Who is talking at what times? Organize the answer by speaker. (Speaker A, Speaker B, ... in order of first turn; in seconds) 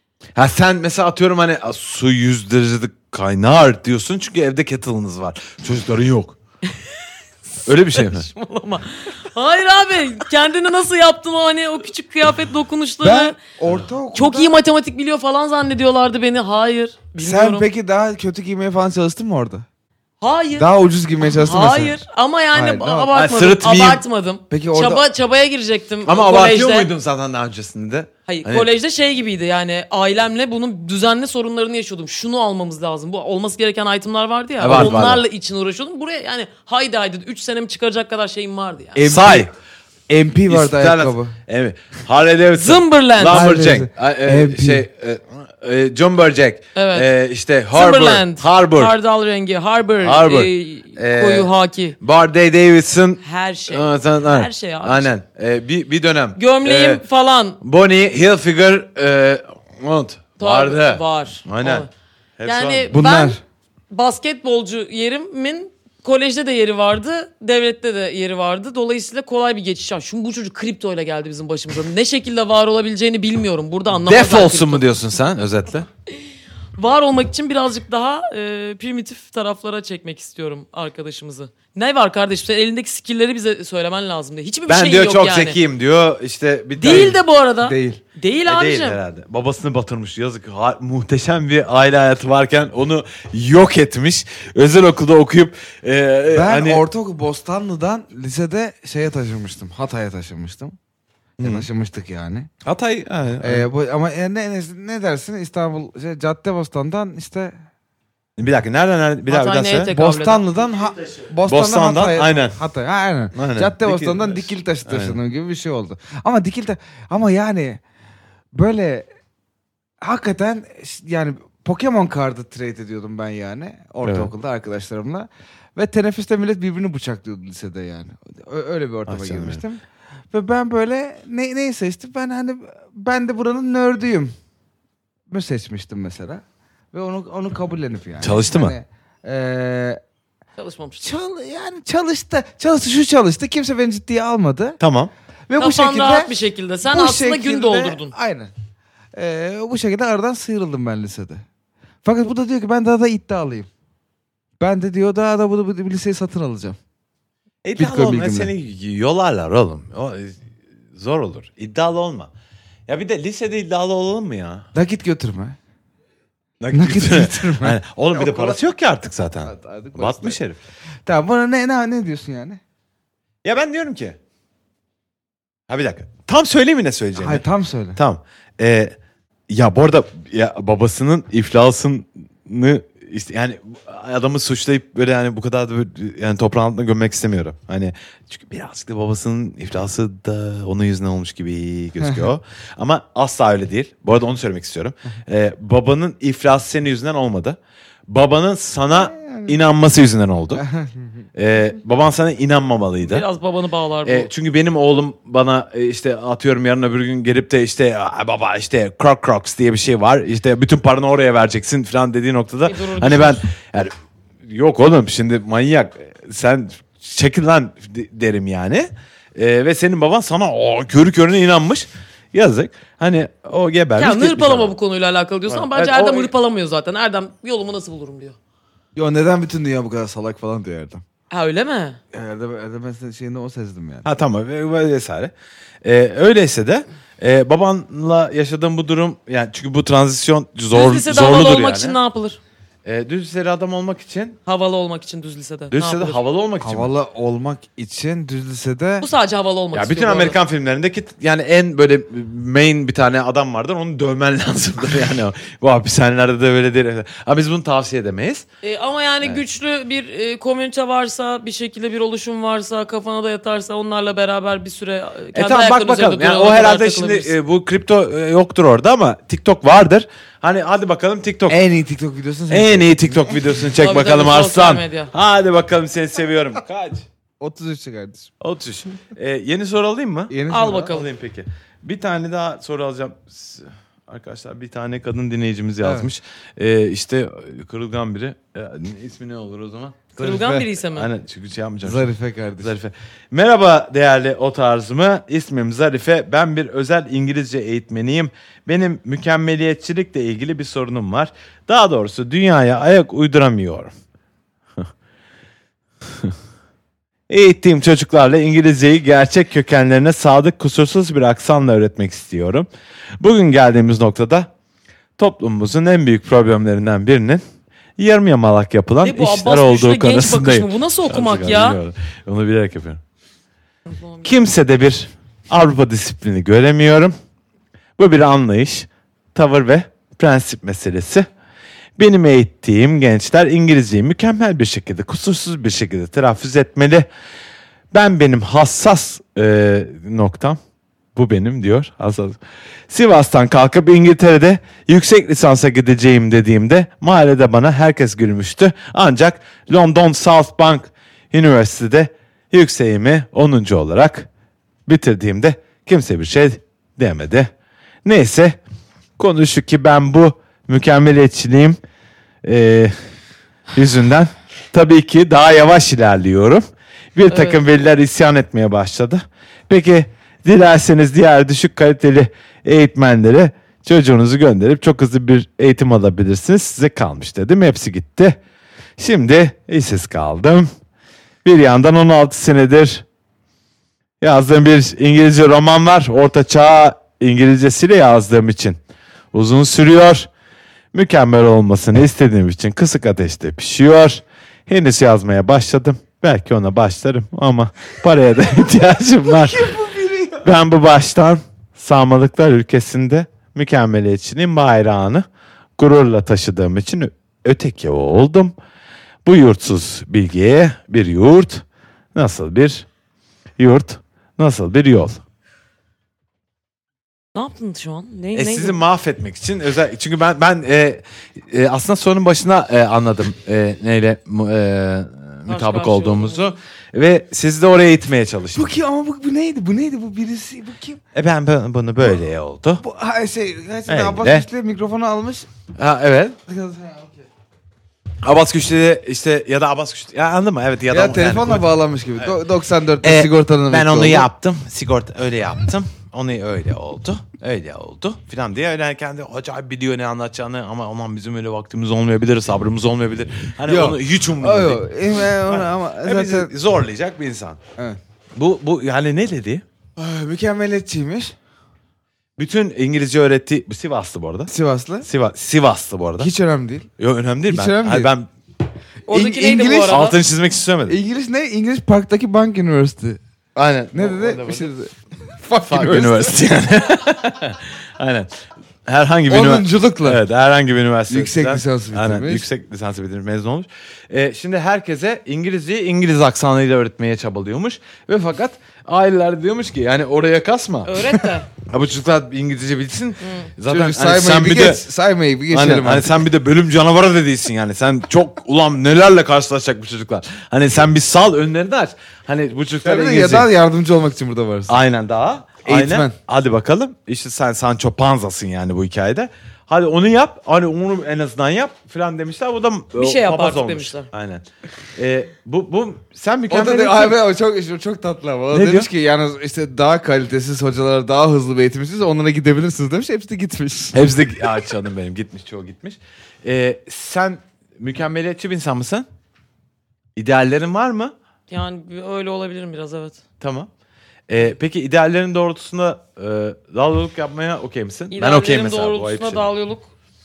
Speaker A: 0.4-6.4, 7.7-8.3, 23.1-24.0, 26.1-28.7, 34.6-35.2, 39.0-39.5, 40.5-48.9, 50.0-57.0, 57.6-61.9, 62.4-62.9, 73.9-75.9, 84.7-87.2, 88.5-96.8, 101.4-101.7, 102.6-103.7, 108.4-109.9, 111.5-112.6, 113.3-115.2, 124.0-124.3, 129.1-129.6, 138.2-138.8, 144.8-145.1, 157.6-160.4, 160.9-162.3, 162.9-164.7, 166.6-170.6, 173.4-174.2, 175.7-177.4, 178.0-178.9, 179.5-200.6, 201.3-203.2, 204.1-213.9, 214.4-224.7, 225.5-226.3, 234.1-235.3, 235.8-242.0, 242.8-244.4, 245.7-246.9, 249.7-258.4, 265.3-271.6, 272.5-277.1, 278.4-303.9, 307.3-312.7, 313.2-314.5, 315.2-317.4, 318.0-323.0, 324.2-327.1, 328.0-331.3, 332.0-337.1, 337.9-340.6, 341.1-354.3, 354.9-357.5, 358.1-358.6, 359.2-361.8, 362.4-362.9, 363.8-378.4, 379.0-380.7, 381.4-383.1, 384.2-388.8, 389.3-390.3, 390.9-399.7, 400.4-405.3, 405.8-408.6, 409.2-412.9, 413.6-415.2, 418.4-428.7, 431.1-432.8, 433.9-434.5, 435.8-436.4, 438.2-442.4, 443.0-457.6, 458.4-459.6, 462.4-464.5, 465.0-466.3, 467.0-468.3, 469.9-471.0, 473.6-474.7, 475.7-478.3, 478.9-491.1, 491.6-494.8, 495.5-503.5, 504.7-514.5, 515.0-517.2, 518.5-518.9, 523.9-529.1, 530.2-531.1, 533.4-533.7, 534.3-539.5
Speaker B: 7.6-13.4, 14.1-17.7, 20.2-20.7, 21.2-26.9, 28.3-39.0, 42.6-43.5, 46.8-47.1, 47.7-52.0, 53.2-55.1, 56.4-57.6, 60.4-61.9, 62.4-63.4, 63.9-74.9, 76.8-85.6, 86.8-89.0, 109.3-110.4, 140.6-141.1, 145.6-148.1, 203.0-204.3, 212.7-213.4, 224.0-228.4, 231.3-232.0, 240.7-242.4, 244.5-246.2, 249.0-250.4, 258.6-267.3, 273.8-275.1, 280.5-281.1, 290.2-291.1, 319.0-321.8, 323.9-324.3, 367.3-367.6, 417.4-418.8, 425.5-426.5, 469.1-470.2, 490.9-491.5, 493.2-493.5, 513.0-514.1, 531.5-533.2, 538.1-539.9
Speaker C: 13.0-14.5, 17.2-19.6, 20.6-22.0, 22.5-23.1, 24.5-25.0, 34.6-35.0, 39.0-39.5, 40.1-41.4, 43.2-44.9, 62.9-63.4, 87.6-88.0, 96.3-100.8, 101.4-102.5, 103.4-107.5, 109.9-117.8, 118.5-119.1, 120.0-134.3, 135.3-140.0, 141.0-144.8, 145.5-146.3, 146.9-148.5, 149.2-151.4, 152.0-153.7, 154.6-156.8, 157.8-158.5, 164.7-165.6, 166.7-168.6, 169.4-170.4, 171.1-172.6, 177.2-178.0, 198.9-199.6, 200.6-201.2, 229.0-231.0, 232.1-234.1, 246.6-249.1, 271.5-273.4, 277.4-278.3, 280.3-280.9, 285.8-286.1, 290.2-290.6, 291.8-292.7, 399.4-400.5, 428.6-431.0, 432.8-435.5, 436.5-437.3, 440.9-444.3, 453.7-456.5, 460.0-461.4, 464.5-465.1, 466.2-466.9, 467.5-468.1, 469.1-470.0, 470.9-473.2, 473.9-476.4, 479.3-480.2, 481.1-482.5, 493.6-496.2, 502.8-504.8, 505.6-506.1, 516.5-524.0